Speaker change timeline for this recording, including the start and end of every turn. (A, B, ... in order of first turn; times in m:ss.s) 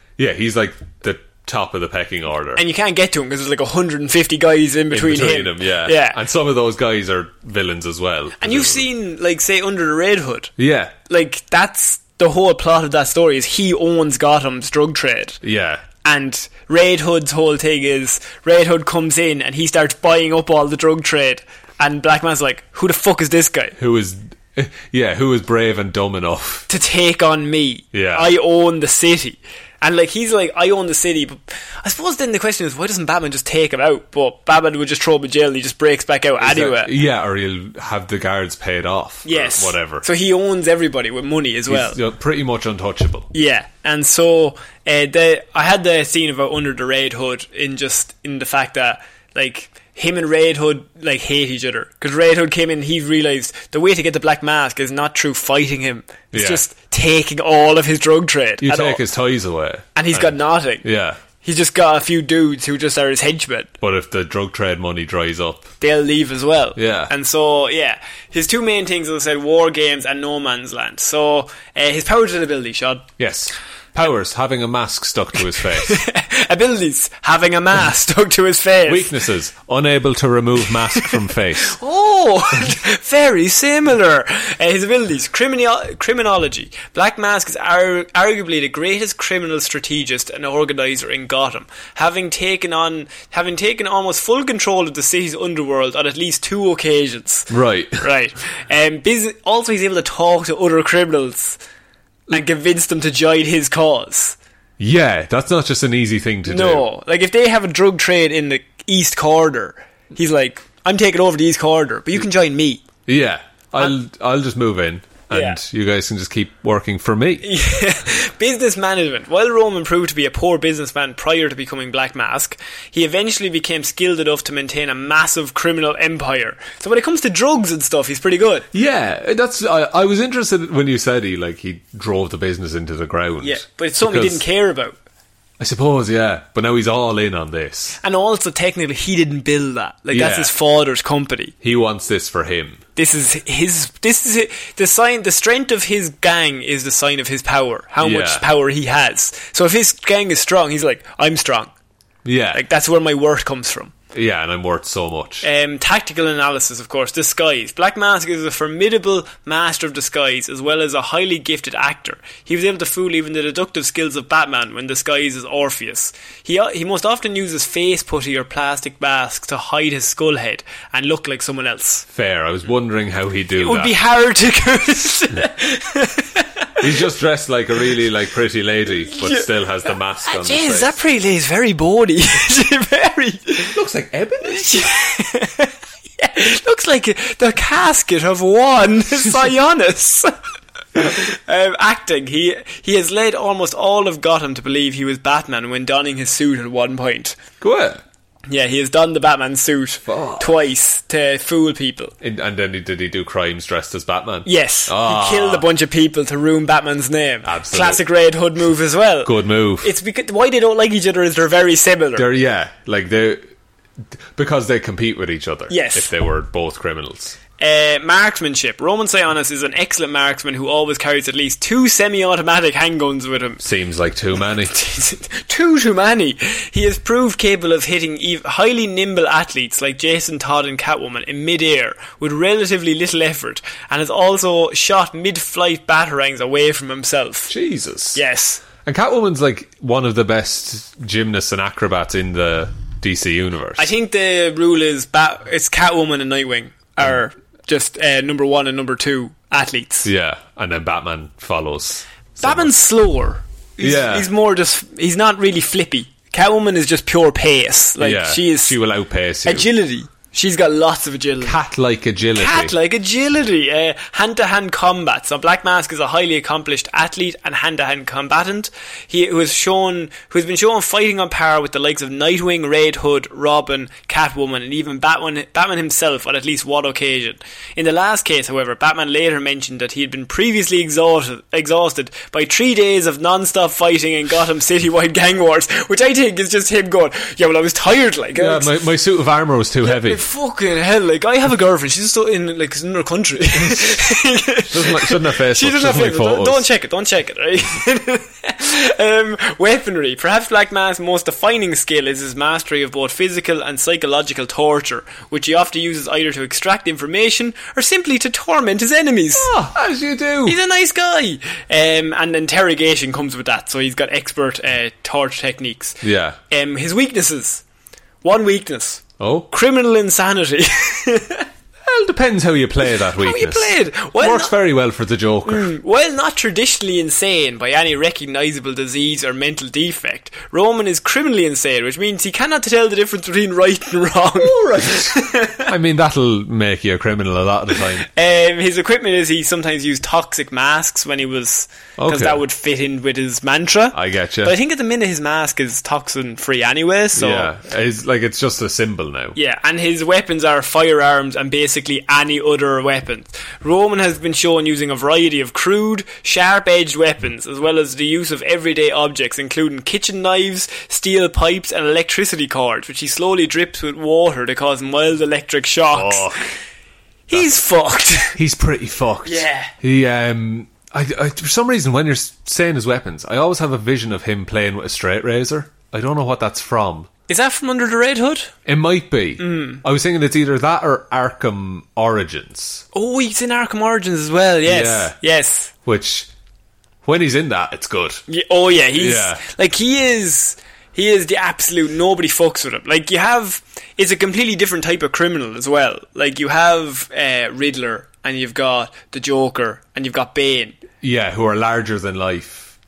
0:00.2-0:02.6 A
0:02.6-0:06.2 B
0:04.9-0:08.9 A
0:08.4-0:10.5 B
0:10.6-0:11.0 A
0:11.1-0:15.4 B
0:15.4-0:15.8 A
0:16.0-0:23.8 B
0:23.8-0:26.7 A
0:26.7-0:36.9 B
0:27.9-0:28.3 A
0:36.4-0:40.0 A
0:39.2-0:42.0 B
0:41.7-0:43.3 A
0:43.3-0:59.0 B
0:56.3-0:56.6 A
0:58.6-1:01.2 A
1:00.0-1:00.8 B
1:01.4-1:03.7 B
1:03.8-1:05.7 A
1:05.8-1:13.1 B
1:06.8-1:07.1 A
1:13.2-1:16.0 A
1:15.8-1:19.1 B
1:18.9-1:21.8 A
1:21.7-1:41.6 B
1:37.5-1:38.0 A
1:42.3-1:44.4 B
1:44.8-1:46.9 A
1:46.5-1:52.8 B
1:53.1-1:57.4 A
1:55.3-1:55.6 B
1:57.4-2:08.7 B
2:08.7-2:14.4 A
2:13.4-2:15.0 B
2:15.6-2:18.0 A
2:18.0-2:21.5 B
2:20.1-2:20.5 A
2:21.6-2:22.8 A
2:23.0-2:31.7 B
2:28.0-2:28.4 A
2:32.2-2:32.6 A
2:32.5-2:33.9 B
2:34.1-2:35.4 A
2:35.4-2:52.1 B
2:52.1-2:53.9 A
2:53.6-2:56.7 B
2:56.8-3:00.9 A
2:59.1-3:03.8 B
3:03.7-3:04.8 A
3:04.4-3:10.3 B
3:11.0-3:17.4 B
3:17.6-3:18.0 A
3:18.5-3:22.1 B
3:20.1-3:20.6 A
3:22.2-3:25.6 A
3:24.4-3:32.3 B
3:27.4-3:28.0 A
3:29.2-3:29.9 A
3:32.2-3:33.4 A
3:34.3-3:37.4 A
3:35.7-3:36.1 B
3:37.6-3:43.6 B
3:43.6-3:44.8 A
3:44.7-3:57.5 B
3:57.5-3:58.2 A
3:58.2-3:58.6 B
3:58.8-4:03.9 A
4:03.8-4:10.1 B
4:10.0-4:12.7 A
4:12.4-4:18.8 B
4:13.8-4:14.3 A
4:18.0-4:19.7 A
4:19.5-4:21.6 B
4:21.4-4:22.8 A
4:22.4-4:48.7 B
4:48.4-4:50.2 A
4:49.8-5:09.5 B
4:53.6-4:54.0 A
4:54.7-4:56.6 A
5:09.4-5:10.6 A
5:10.5-5:17.6 B
5:16.0-5:16.4 A
5:18.2-5:21.5 B
5:19.2-5:19.5 A
5:21.9-5:25.7 A
5:23.2-5:24.5 B
5:25.5-5:35.7 B
5:34.4-5:38.1 A
5:38.1-5:47.5 B
5:42.0-5:42.4 A
5:43.9-5:44.6 A
5:47.2-5:49.4 A
5:49.4-6:06.3 B
6:05.9-6:06.5 A
6:07.3-6:08.4 B
6:08.4-6:17.1 A
6:09.2-6:09.7 B
6:17.3-6:18.5 B
6:18.7-6:22.8 A
6:19.4-6:19.8 B
6:22.9-6:25.7 B
6:24.6-6:25.2 A
6:25.8-6:26.3 A
6:27.0-6:28.2 A
6:28.3-6:40.8 B
6:28.9-6:29.4 A
6:41.0-6:42.7 A